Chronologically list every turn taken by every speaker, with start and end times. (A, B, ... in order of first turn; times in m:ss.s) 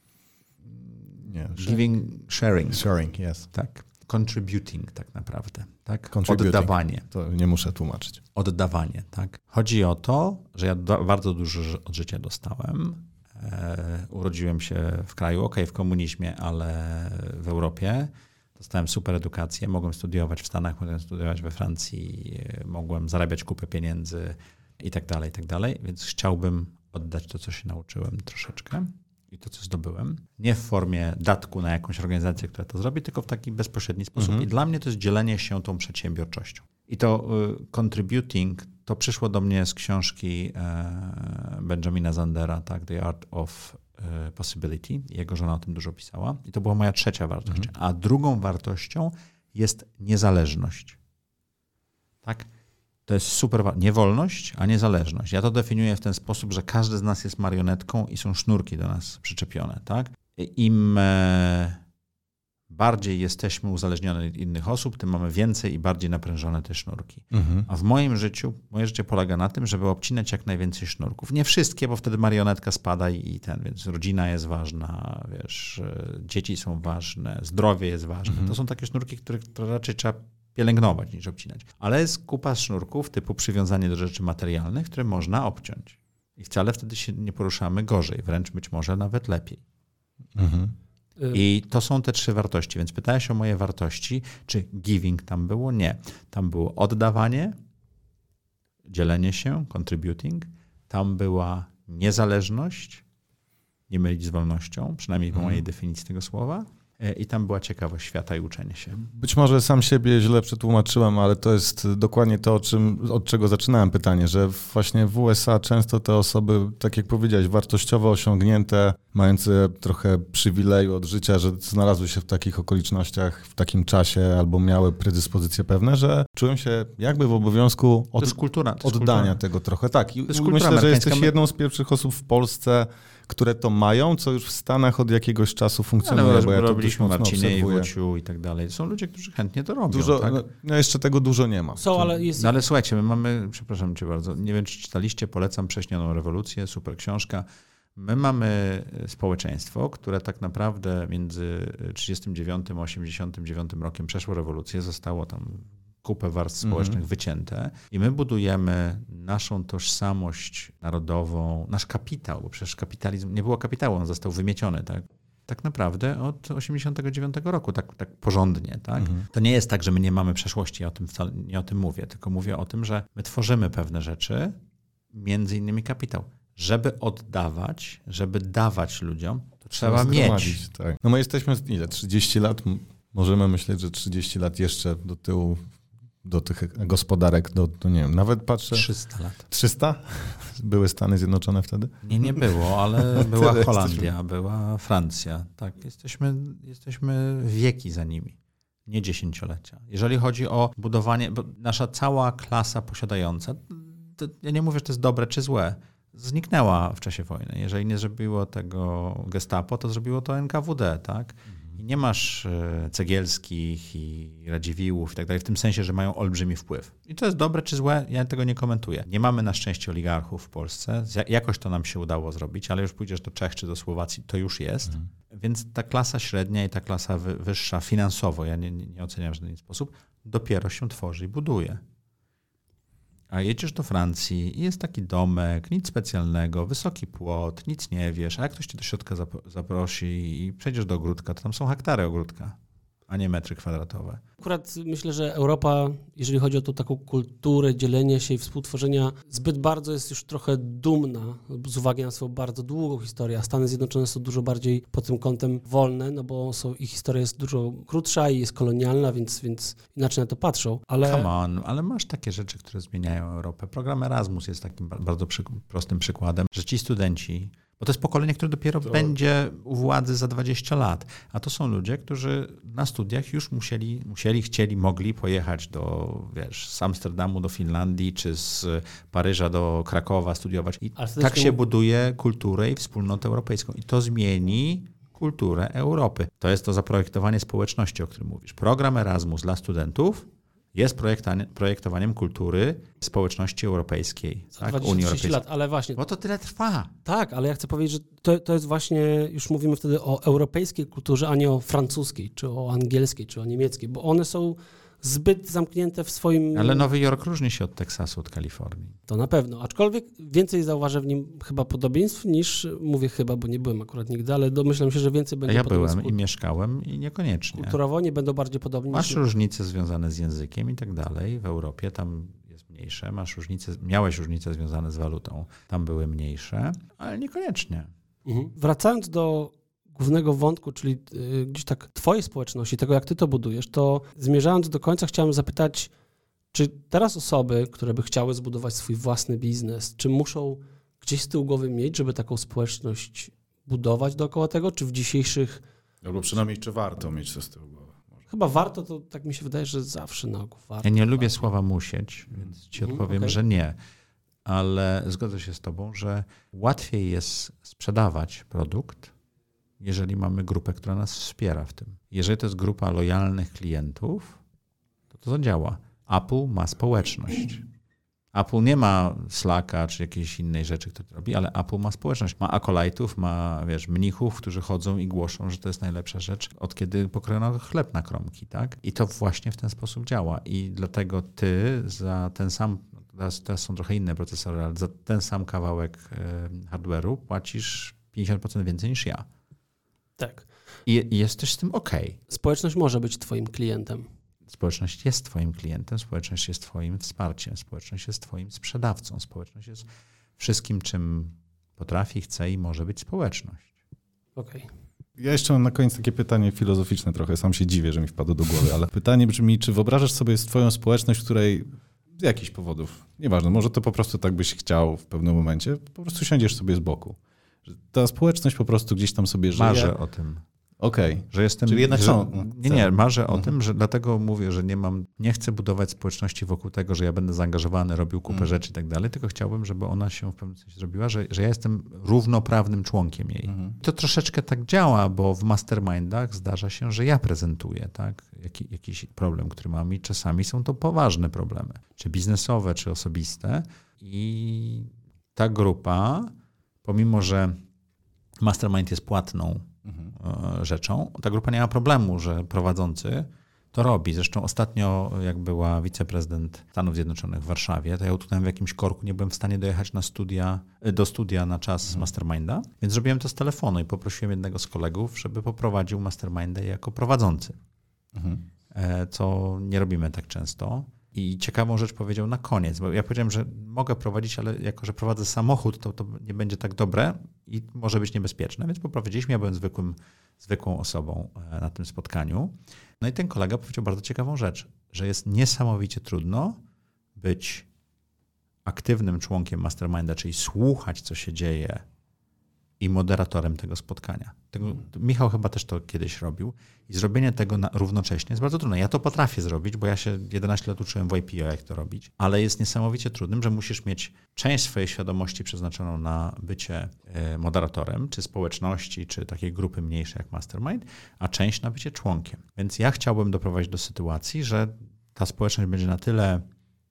0:00.7-0:02.9 A
0:01.3-0:01.8 B
0:02.7-0:03.4 B
0:03.5-0:07.1 A
0:06.1-0:08.2 B
0:08.3-0:51.0 A
0:34.2-0:34.4 B
0:53.1-1:01.8 A
1:02.7-1:29.6 A
1:07.3-1:07.6 B
1:30.4-1:30.7 B
1:31.3-1:37.6 A
1:38.9-1:43.0 A
1:43.9-1:49.1 A
1:49.2-2:17.9 B
2:08.2-2:09.4 A
2:10.2-2:11.3 A
2:16.0-2:20.4 A
2:19.9-2:22.1 B
2:21.8-2:22.5 C
2:22.4-2:54.6 A
2:36.6-2:37.0 D
2:55.1-3:00.6 A
2:59.8-3:05.7 B
3:06.2-3:08.9 B
3:08.7-3:09.5 A
3:09.5-3:12.4 B
3:12.0-3:18.4 A
3:13.2-3:14.1 B
3:18.9-3:51.8 A
3:53.3-4:02.6 A
4:03.1-4:04.2 A
4:04.4-4:21.3 C
4:21.0-4:55.4 A
4:41.0-4:41.6 C
4:54.6-4:56.0 C
4:56.0-4:56.9 A
4:57.0-5:06.9 C
5:06.5-5:09.0 A
5:09.1-5:16.1 C
5:15.5-5:17.8 A
5:17.5-5:19.2 C
5:18.9-5:27.9 A
5:28.2-5:35.9 C
5:36.5-5:45.6 C
5:46.0-5:48.2 D
5:48.3-5:51.3 C
5:50.8-5:53.8 A
5:52.8-5:53.3 C
5:54.4-5:59.1 A
5:59.8-6:04.4 A
6:05.1-6:07.6 A
6:08.3-6:29.2 A
6:30.2-6:30.5 C
6:30.8-6:32.2 A
6:32.3-6:34.1 C
6:34.5-6:43.7 A
6:44.4-6:44.7 C
6:45.2-6:59.9 D
6:59.5-7:00.4 A
7:00.8-7:03.5 D
7:01.3-7:26.3 A
7:13.5-7:13.7 D
7:26.8-7:27.6 A
7:28.4-7:47.6 A
7:48.1-7:48.4 D
7:48.7-8:06.6 A
8:07.2-8:07.7 A
8:08.6-8:11.8 A
8:12.8-8:36.4 A